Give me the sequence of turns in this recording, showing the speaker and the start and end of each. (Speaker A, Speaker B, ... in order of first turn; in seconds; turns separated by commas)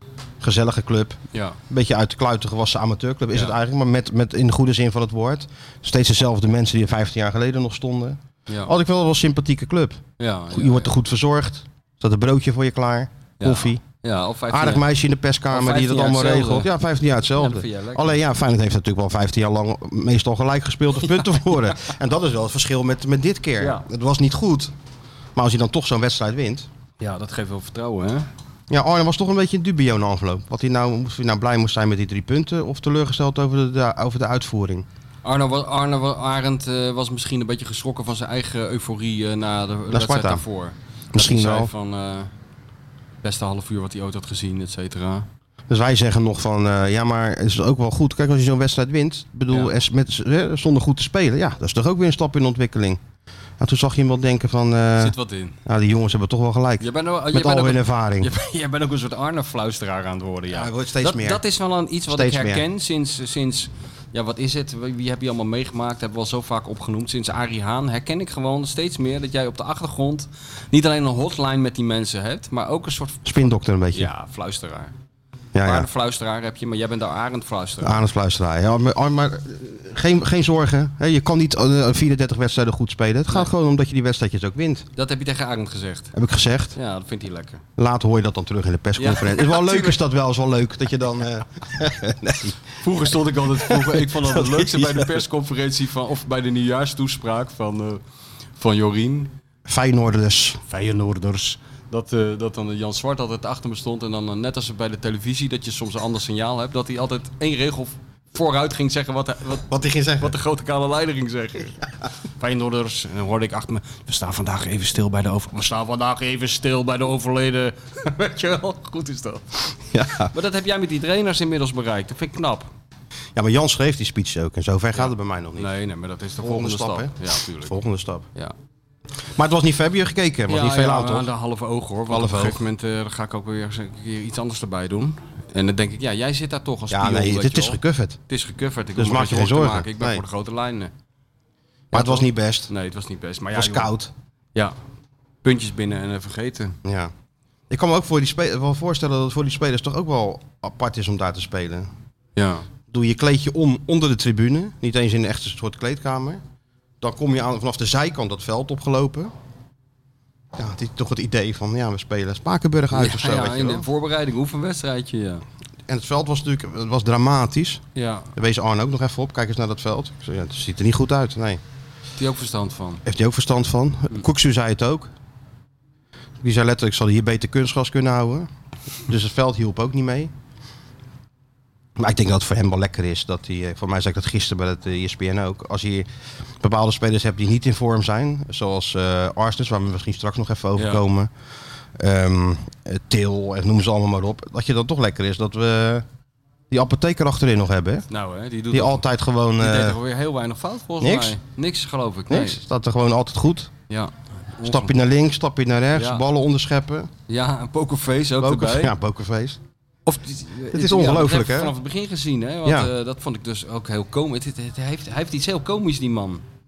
Speaker A: 0.4-13.8, Speaker B: 1.3-1.6, Speaker B: 10.2-10.9, Speaker B: 13.4-14.9, Speaker A: 14.5-24.7, Speaker B: 15.5-16.7, Speaker B: 17.4-18.2, Speaker B: 21.0-21.9, Speaker B: 23.6-23.9, Speaker A: 25.4-26.7, Speaker B: 27.0-28.3, Speaker A: 28.7-34.9, Speaker B: 35.2-42.3, Speaker A: 39.9-40.4, Speaker A: 41.1-41.7, Speaker B: 43.2-45.3, Speaker A: 45.7-53.0, Speaker A: 53.6-55.1, Speaker B: 55.0-55.6, Speaker A: 55.7-58.3, Speaker B: 56.8-74.9, Speaker A: 60.5-61.4, Speaker A: 62.1-62.6, Speaker A: 73.2-74.1, Speaker A: 75.5-75.9, Speaker B: 75.6-78.0, Speaker A: 77.8-84.9, Speaker B: 85.0-86.1, Speaker A: 86.1-86.8, Speaker B: 86.8-87.6, Speaker A: 87.8-92.6, Speaker B: 89.0-90.0, Speaker B: 92.8-98.0, Speaker A: 93.6-95.1, Speaker B: 98.6-99.3, Speaker A: 99.7-100.6, Speaker B: 100.7-111.9, Speaker A: 109.7-110.3, Speaker B: 112.4-119.8, Speaker A: 119.9-120.3, Speaker B: 120.3-122.7, Speaker A: 123.3-125.8, Speaker B: 125.0-127.8, Speaker A: 126.4-128.3, Speaker A: 129.3-131.3, Speaker B: 130.5-140.9, Speaker A: 132.1-132.6, Speaker A: 136.9-138.2, Speaker A: 138.9-140.2, Speaker A: 141.9-142.7, Speaker B: 141.9-143.9, Speaker A: 143.5-144.1, Speaker B: 145.4-146.8, Speaker A: 146.8-147.1, Speaker A: 147.7-151.9, Speaker B: 152.4-152.7, Speaker A: 152.9-156.4, Speaker A: 157.0-159.3, Speaker A: 160.6-163.8, Speaker B: 162.9-165.4, Speaker A: 165.9-167.8, Speaker B: 167.9-168.3, Speaker A: 168.3-171.6, Speaker B: 172.2-173.0, Speaker A: 173.1-175.1, Speaker A: 176.4-178.5, Speaker A: 179.1-180.3, Speaker A: 182.0-186.1, Speaker A: 186.6-191.3, Speaker B: 190.8-191.0, Speaker A: 191.9-196.1, Speaker A: 196.7-198.1, Speaker B: 198.1-199.0, Speaker A: 198.7-200.0, Speaker B: 199.6-202.6, Speaker A: 201.0-201.4, Speaker A: 202.3-203.7, Speaker B: 203.9-204.9, Speaker A: 204.6-207.1, Speaker B: 205.9-206.2, Speaker B: 207.3-208.9, Speaker A: 208.4-209.6, Speaker B: 210.1-216.4, Speaker A: 210.7-211.7, Speaker A: 212.7-212.9